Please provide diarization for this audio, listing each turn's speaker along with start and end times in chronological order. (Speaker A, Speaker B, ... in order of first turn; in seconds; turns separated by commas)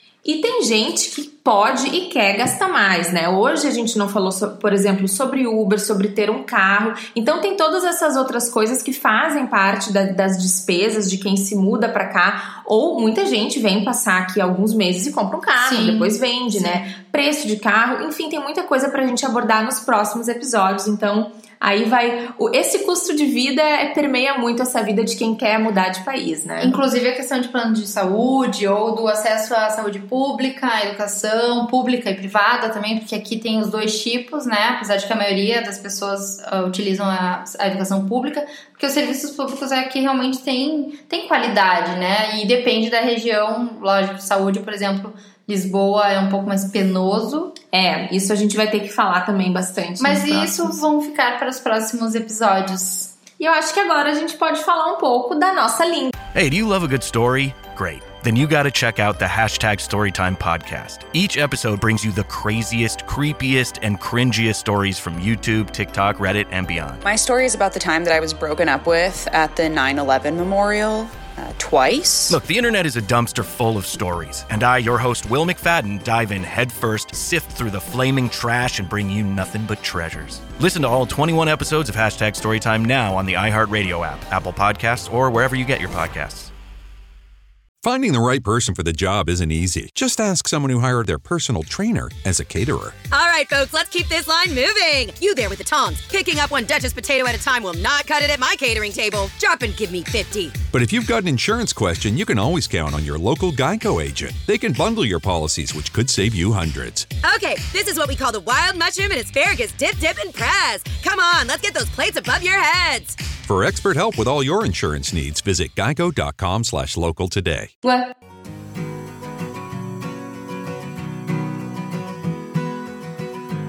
Speaker A: 0.2-26.8, Speaker B: 15.6-16.8, Speaker B: 26.6-47.5, Speaker A: 47.7-50.8, Speaker B: 50.0-53.1, Speaker A: 53.4-56.1, Speaker C: 56.3-67.0, Speaker D: 67.0-72.4, Speaker C: 72.3-86.5, Speaker E: 87.8-93.0, Speaker F: 93.1-100.6, Speaker E: 100.7-107.1, Speaker F: 107.2-113.3, Speaker E: 113.4-117.7, Speaker A: 117.8-118.1